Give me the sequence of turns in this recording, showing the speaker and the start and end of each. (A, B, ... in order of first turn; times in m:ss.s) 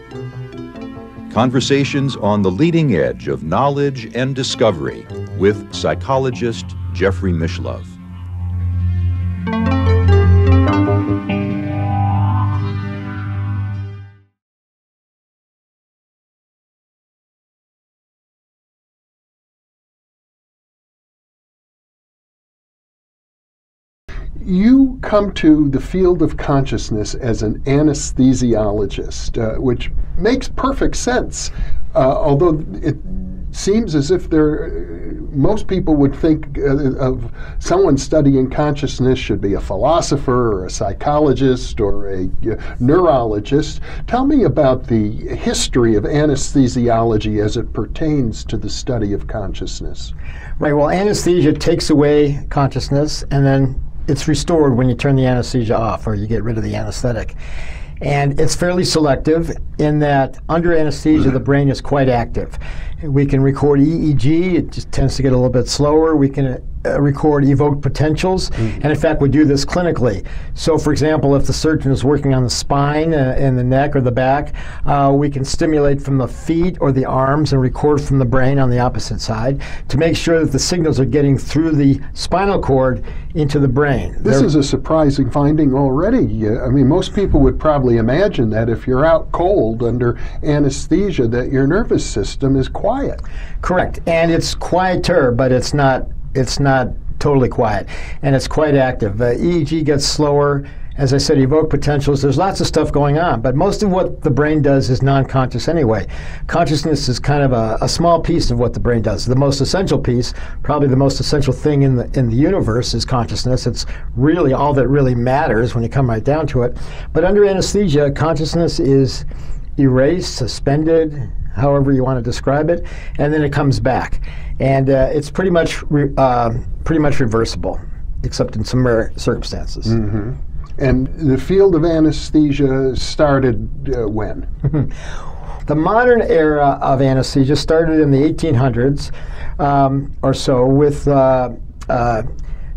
0:01.3-0:07.9 A
0:24.4-0:50.1 B
0:50.6-0:57.4 C
0:58.0-1:24.5 C
1:24.2-1:33.2 B
1:33.6-1:59.2 C
1:59.8-2:10.0 C
2:09.8-2:14.5 B
2:15.7-2:22.2 C